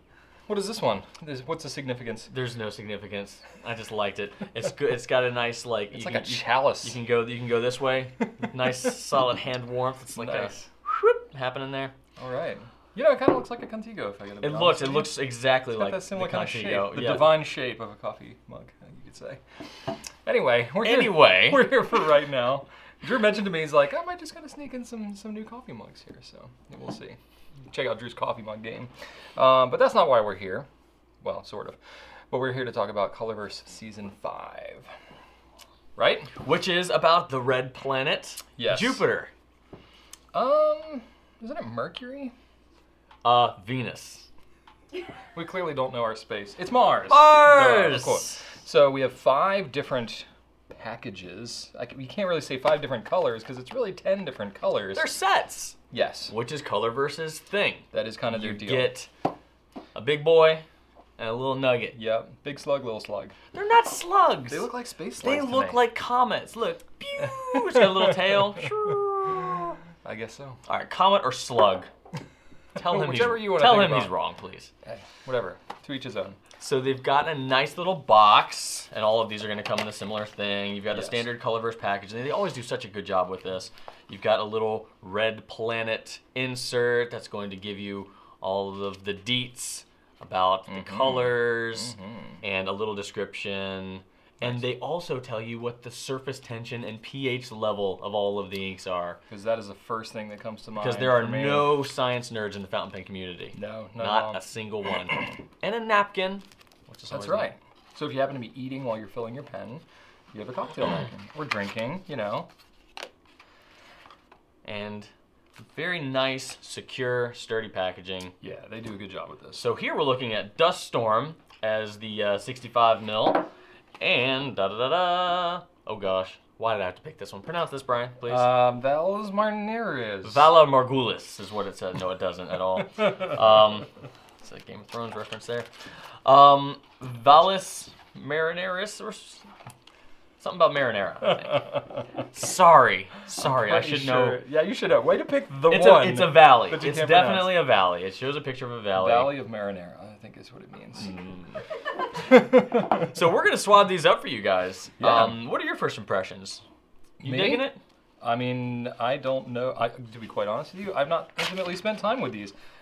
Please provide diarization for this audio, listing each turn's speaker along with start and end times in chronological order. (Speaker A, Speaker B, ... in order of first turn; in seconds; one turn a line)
Speaker A: 0.5-2.3
Speaker B: 2.3-11.9
Speaker A: 5.9-7.0
Speaker A: 10.1-10.6
Speaker A: 12.2-19.4
Speaker B: 14.4-17.4
Speaker A: 20.2-27.2
Speaker B: 20.8-21.7
Speaker A: 27.7-30.7
Speaker A: 31.2-31.8
Speaker A: 32.3-34.9
Speaker A: 36.0-36.3
Speaker B: 36.4-39.3
Speaker A: 38.6-39.0
Speaker A: 40.3-42.3
Speaker B: 43.2-44.3
Speaker A: 45.3-55.1
Speaker B: 47.1-48.6
Speaker B: 54.9-55.8
Speaker A: 55.9-56.3
Speaker B: 56.3-59.1
Speaker A: 57.9-59.0
Speaker B: 60.0-60.6
Speaker B: 61.2-62.0
Speaker A: 61.9-63.4
Speaker B: 63.5-69.8
Speaker A: 64.5-65.8
Speaker A: 67.2-68.7
Speaker A: 70.0-70.6
Speaker B: 70.7-71.9
Speaker A: 72.8-74.1
Speaker B: 72.8-74.7
Speaker A: 74.8-76.4
Speaker B: 76.6-99.2
Speaker A: 80.9-81.3
Speaker A: 90.7-92.4
Speaker A: 94.4-94.7
Speaker A: 99.3-101.8
Speaker B: 100.8-107.5
Speaker A: 103.5-104.4
Speaker A: 107.1-112.5
Speaker B: 114.6-118.3
Speaker A: 118.4-119.6
Speaker B: 119.5-123.5
Speaker B: 124.0-128.6
Speaker A: 128.2-130.5
Speaker B: 130.2-133.9
Speaker B: 134.4-135.7
Speaker B: 136.2-139.5
Speaker B: 140.4-144.4
Speaker A: 143.4-147.7
Speaker B: 145.7-149.4
Speaker A: 148.9-151.1
Speaker B: 151.0-151.6
Speaker A: 152.2-153.1
Speaker B: 153.0-156.6
Speaker A: 155.0-155.4
Speaker A: 157.2-157.7
Speaker B: 157.2-157.8
Speaker A: 158.2-162.5